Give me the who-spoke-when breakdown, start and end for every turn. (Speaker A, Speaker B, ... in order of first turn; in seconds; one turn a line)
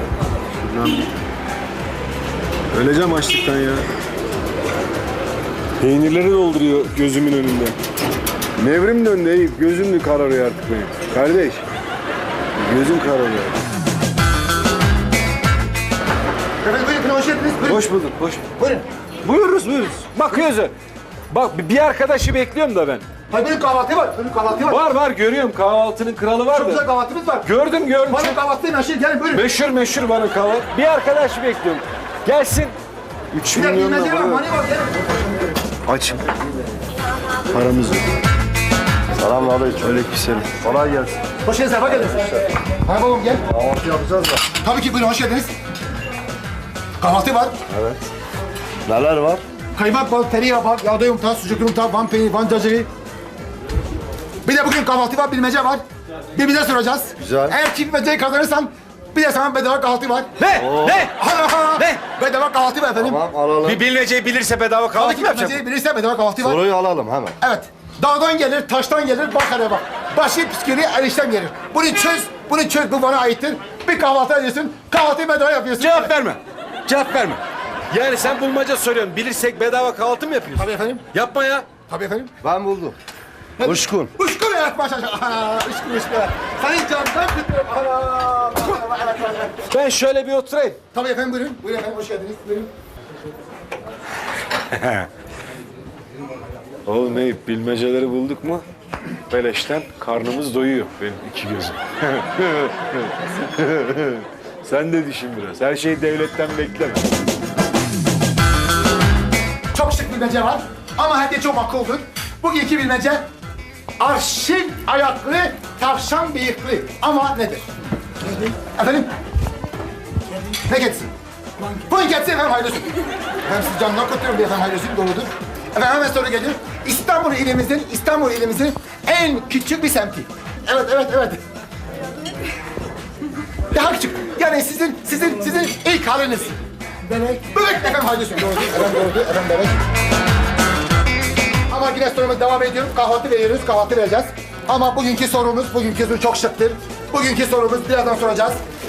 Speaker A: 0.6-1.1
Speaker A: 2.7-3.9
Speaker A: 5.8-7.8
Speaker A: 8.6-11.6
Speaker A: 12.6-13.6
Speaker B: 16.6-17.8
Speaker A: 17.6-18.5
Speaker B: 18.6-18.9
Speaker A: 19.2-20.7
Speaker A: 21.3-23.1
Speaker B: 23.3-24.8
Speaker A: 24.7-26.8
Speaker B: 26.5-27.5
Speaker A: 27.4-28.4
Speaker B: 28.1-29.5
Speaker A: 29.3-32.8
Speaker A: 33.3-34.5
Speaker B: 33.5-35.1
Speaker A: 35.9-36.2
Speaker A: 37.5-38.0
Speaker C: 39.2-41.2
Speaker A: 39.9-40.5
Speaker B: 41.4-43.4
Speaker C: 43.5-44.4
Speaker B: 44.6-45.5
Speaker B: 47.0-47.6
Speaker C: 47.7-48.0
Speaker C: 48.9-49.4
Speaker B: 49.8-52.9
Speaker B: 54.5-55.8
Speaker B: 56.4-60.3
Speaker C: 57.2-57.5
Speaker A: 60.4-61.2
Speaker C: 60.6-61.0
Speaker B: 61.1-63.3
Speaker A: 61.8-62.0
Speaker C: 63.0-63.8
Speaker A: 63.6-65.6
Speaker B: 65.0-66.7
Speaker C: 66.4-67.4
Speaker B: 67.4-76.1
Speaker A: 75.8-81.7
Speaker B: 80.6-81.0
Speaker B: 81.9-82.3
Speaker C: 82.4-83.0
Speaker B: 83.6-89.6
Speaker C: 83.6-84.1
Speaker A: 89.7-90.8
Speaker B: 90.9-92.7
Speaker A: 94.7-95.1
Speaker A: 96.9-98.6
Speaker A: 99.3-107.0
Speaker B: 109.7-113.2
Speaker B: 114.0-117.7
Speaker B: 118.5-119.1
Speaker B: 120.7-122.9
Speaker B: 123.5-131.4
Speaker B: 133.7-139.8
Speaker B: 141.7-148.6